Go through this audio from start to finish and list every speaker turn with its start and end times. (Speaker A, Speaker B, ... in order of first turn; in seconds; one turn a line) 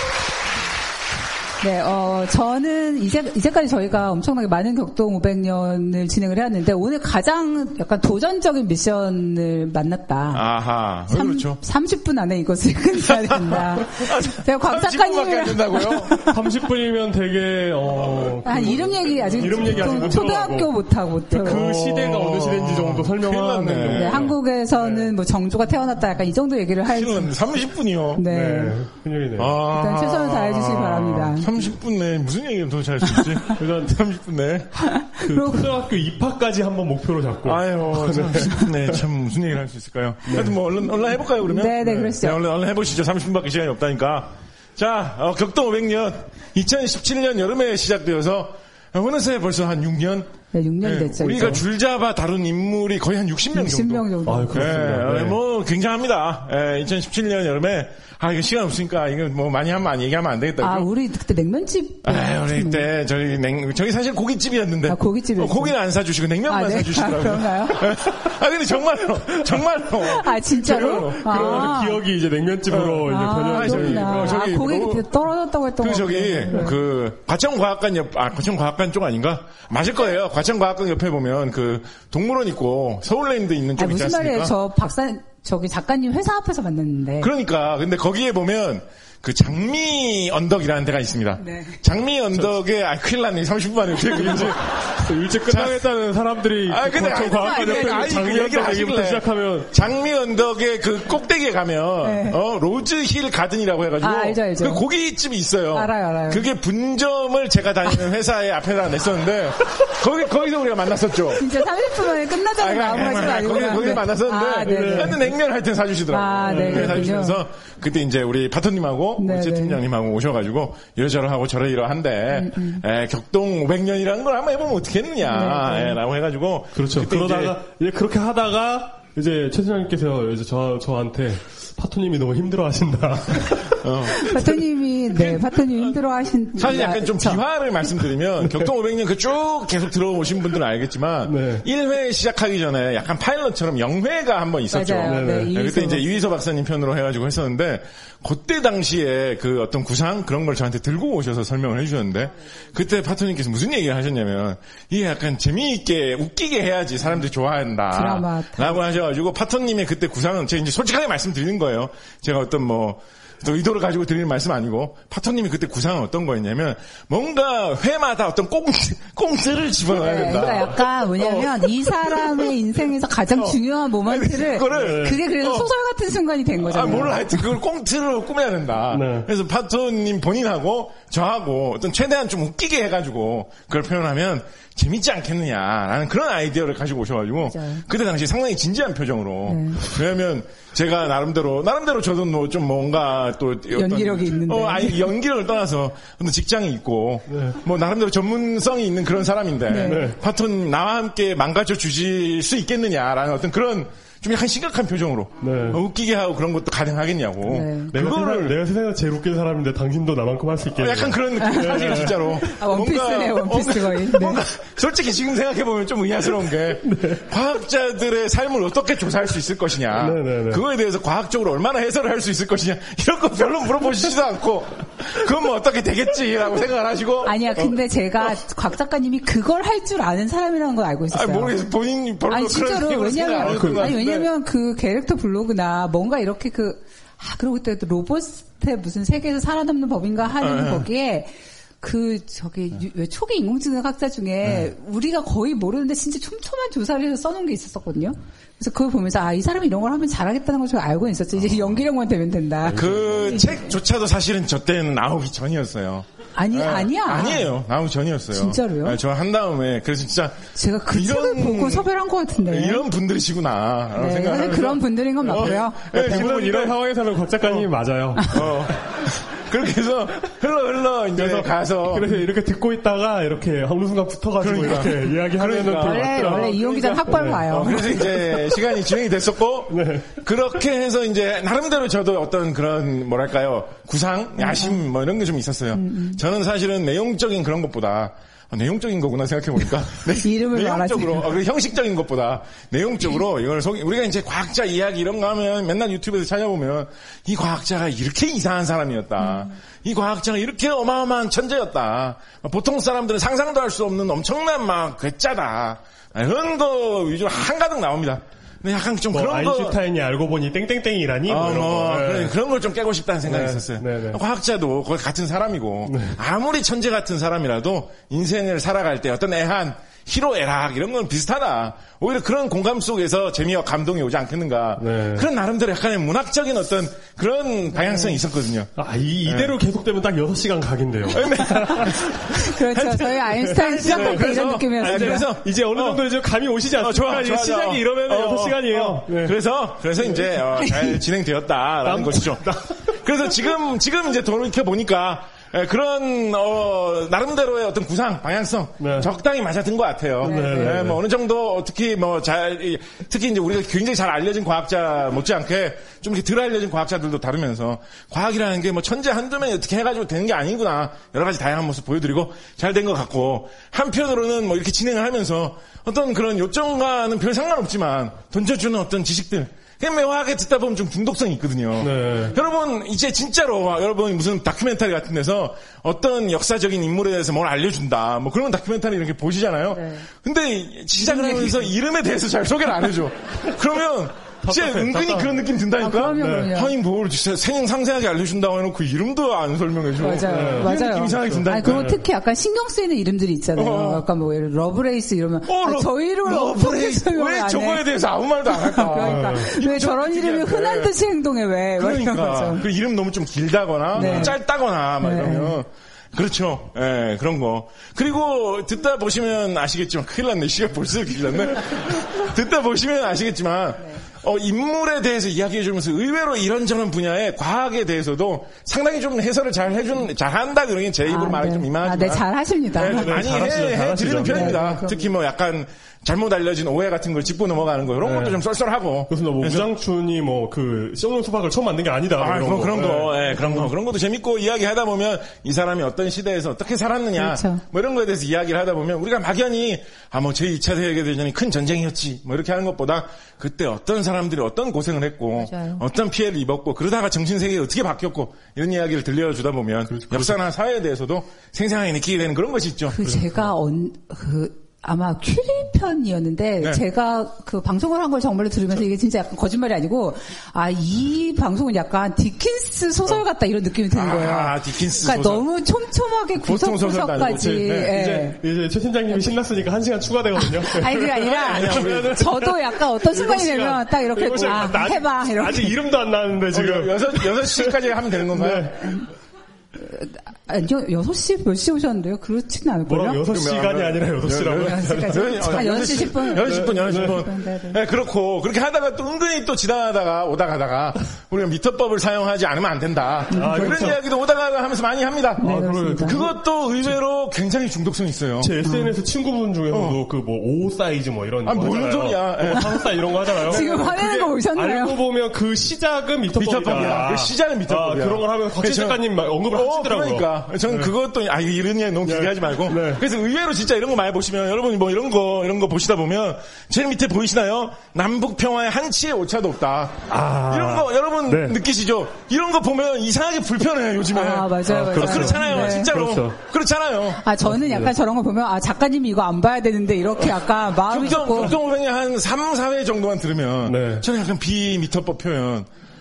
Speaker A: 1.6-10.4
Speaker B: 10.3-11.6
Speaker A: 11.1-16.3
Speaker B: 13.4-16.1
Speaker C: 16.3-20.7
Speaker B: 17.9-18.8
Speaker A: 18.4-21.7
Speaker B: 19.4-20.1
Speaker C: 21.3-25.1
Speaker B: 21.5-24.3
Speaker A: 23.9-27.4
Speaker B: 26.9-28.2
Speaker A: 28.1-28.7
Speaker C: 28.3-29.6
Speaker B: 29.4-34.7
Speaker A: 29.7-31.5
Speaker C: 33.6-34.0
Speaker A: 35.0-35.7
Speaker C: 35.2-39.0
Speaker B: 37.4-60.9
Speaker C: 40.2-40.5
Speaker A: 41.4-42.4
Speaker C: 41.8-42.1
Speaker A: 50.5-51.6
Speaker A: 53.5-54.8
Speaker C: 54.2-55.4
Speaker A: 60.6-62.9
Speaker B: 62.0-71.8
Speaker A: 64.9-65.8
Speaker A: 66.5-67.8
Speaker A: 70.1-72.0
Speaker C: 70.8-74.4
Speaker B: 72.7-75.1
Speaker A: 73.1-76.8
Speaker B: 75.8-84.5
Speaker A: 83.8-87.3
Speaker B: 87.2-94.9
Speaker A: 91.4-91.8
Speaker C: 94.1-99.7
Speaker B: 95.5-95.9
Speaker B: 96.7-111.5
Speaker A: 97.2-98.7
Speaker A: 102.0-102.4
Speaker A: 104.0-104.8
Speaker A: 105.7-106.4
Speaker A: 111.4-115.2
Speaker B: 112.6-127.5
Speaker C: 113.5-114.0
Speaker C: 114.6-115.3
Speaker A: 116.1-117.4
Speaker C: 116.5-117.2
Speaker A: 119.2-119.8
Speaker A: 122.3-122.8
Speaker A: 125.2-126.0
Speaker C: 126.7-133.8
Speaker B: 133.8-134.6
Speaker A: 134.2-137.4
Speaker B: 135.1-136.0
Speaker B: 136.5-172.5
Speaker C: 141.2-141.6
Speaker A: 144.7-146.0
Speaker C: 145.0-145.5
Speaker A: 157.9-158.8
Speaker A: 170.0-177.4
Speaker B: 173.3-175.7
Speaker C: 174.7-175.2
Speaker B: 176.7-208.6
Speaker C: 178.9-179.3
Speaker A: 187.5-187.8
Speaker A: 189.5-189.8
Speaker A: 193.7-195.1
Speaker C: 197.3-197.6
Speaker A: 199.7-200.1
Speaker C: 199.8-200.2
Speaker C: 205.4-205.8
Speaker A: 207.4-207.9
Speaker C: 207.9-212.3
Speaker B: 210.8-227.4
Speaker A: 211.4-214.4
Speaker C: 216.8-217.2
Speaker C: 219.9-220.6
Speaker A: 227.2-231.6
Speaker B: 231.1-234.3
Speaker A: 232.3-253.7
Speaker C: 233.4-233.9
Speaker B: 240.4-240.9
Speaker B: 252.7-261.9
Speaker A: 256.4-257.5
Speaker A: 258.3-259.0
Speaker A: 260.5-262.8
Speaker B: 262.4-266.8
Speaker A: 263.9-265.8
Speaker C: 265.3-268.7
Speaker B: 267.4-267.7
Speaker B: 268.3-272.1
Speaker C: 271.1-277.7
Speaker B: 274.4-276.5
Speaker A: 275.8-278.0
Speaker B: 277.4-309.8
Speaker C: 279.7-280.2
Speaker A: 284.4-284.8
Speaker A: 285.7-286.2
Speaker A: 290.2-291.3
Speaker A: 299.2-299.5
Speaker C: 309.1-312.3
Speaker B: 311.3-328.7
Speaker C: 313.2-314.2
Speaker C: 315.9-316.2
Speaker C: 324.8-325.3
Speaker A: 327.8-328.2
Speaker C: 328.8-332.4
Speaker B: 329.2-329.5
Speaker B: 331.1-336.0
Speaker A: 332.4-335.3
Speaker C: 333.6-339.4
Speaker B: 336.8-342.4
Speaker C: 340.0-341.0
Speaker C: 341.8-342.9
Speaker B: 343.0-391.9
Speaker C: 348.8-349.1
Speaker A: 350.2-350.8
Speaker C: 350.2-351.0
Speaker C: 371.8-372.4
Speaker A: 379.7-380.0
Speaker A: 380.9-381.7
Speaker C: 384.4-385.3
Speaker A: 385.8-386.7
Speaker C: 386.1-386.5
Speaker A: 390.0-397.8
Speaker C: 390.2-392.0
Speaker B: 393.6-394.0
Speaker B: 395.4-400.9
Speaker A: 398.5-402.6
Speaker C: 399.0-399.5
Speaker B: 401.8-429.7
Speaker A: 403.9-404.4
Speaker C: 404.0-404.3
Speaker A: 405.0-405.6
Speaker A: 421.1-423.2
Speaker C: 422.8-424.6
Speaker A: 424.2-425.1
Speaker C: 428.0-428.4
Speaker C: 429.1-433.6
Speaker B: 432.2-453.0
Speaker A: 437.2-437.6
Speaker A: 445.4-445.8
Speaker C: 449.9-450.4
Speaker A: 452.9-468.4
Speaker C: 453.0-453.5
Speaker B: 463.9-465.4
Speaker B: 466.4-468.0
Speaker C: 467.4-478.7
Speaker A: 470.6-475.8
Speaker B: 471.1-472.3
Speaker B: 474.4-474.6
Speaker B: 476.5-478.8
Speaker A: 479.8-483.2
Speaker C: 482.9-487.2
Speaker B: 483.3-495.5
Speaker A: 484.6-487.8
Speaker A: 493.3-493.9
Speaker C: 493.3-494.0
Speaker A: 495.4-496.2
Speaker C: 495.4-496.9
Speaker B: 496.0-498.5
Speaker C: 498.4-510.9
Speaker A: 498.6-498.9
Speaker B: 499.7-500.0
Speaker B: 501.4-502.7
Speaker A: 503.5-504.9
Speaker B: 506.3-527.2
Speaker C: 512.0-513.0
Speaker C: 520.1-521.6
Speaker A: 524.1-525.9
Speaker C: 524.6-526.4
Speaker A: 527.2-531.5
Speaker C: 527.4-527.9
Speaker B: 530.9-535.7
Speaker C: 533.6-534.0